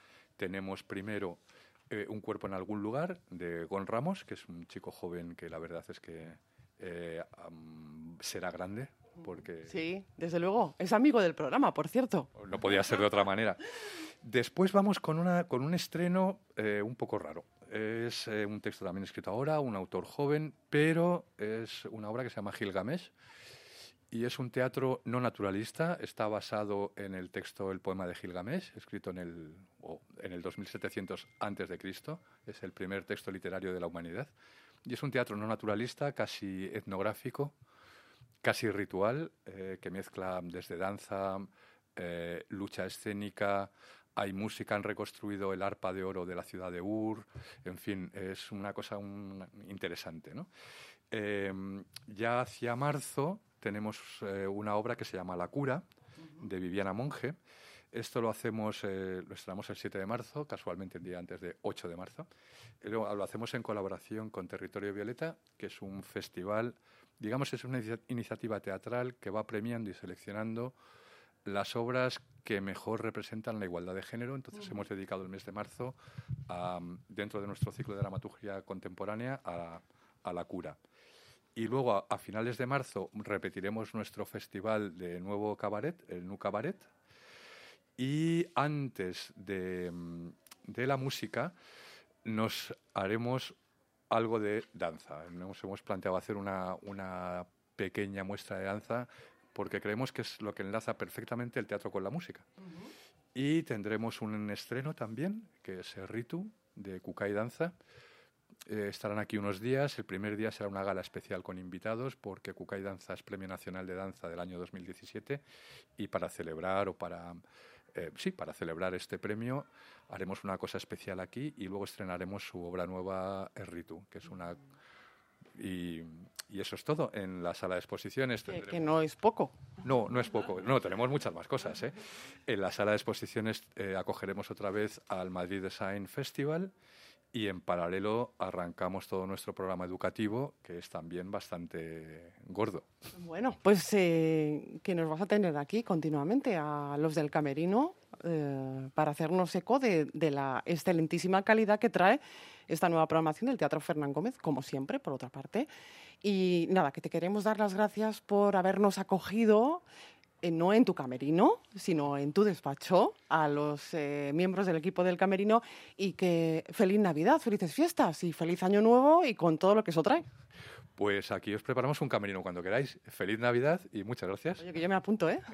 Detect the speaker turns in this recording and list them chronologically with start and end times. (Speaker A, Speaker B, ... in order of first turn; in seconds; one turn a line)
Speaker A: 0.4-9.8
Speaker B: 9.7-12.3
Speaker A: 12.3-13.6
Speaker A: 14.2-23.1
Speaker A: 24.1-34.3
Speaker A: 34.9-37.5
Speaker A: 38.4-50.5
Speaker A: 51.1-55.8
Speaker A: 56.4-57.4
Speaker A: 57.9-62.3
Speaker A: 62.8-70.7
Speaker A: 71.4-76.0
Speaker A: 76.5-80.8
Speaker A: 81.5-86.9
Speaker A: 88.0-91.5
Speaker A: 92.2-93.5
Speaker A: 94.1-102.5
Speaker A: 103.3-107.7
Speaker A: 108.7-115.4
Speaker A: 116.0-117.4
Speaker A: 117.9-124.6
Speaker A: 125.6-128.9
Speaker B: 128.5-129.6
Speaker A: 129.8-136.7
Speaker A: 137.3-142.8
Speaker B: 143.1-155.7
Speaker B: 156.2-159.8
Speaker B: 160.4-170.2
Speaker A: 171.0-174.7
Speaker B: 174.6-175.4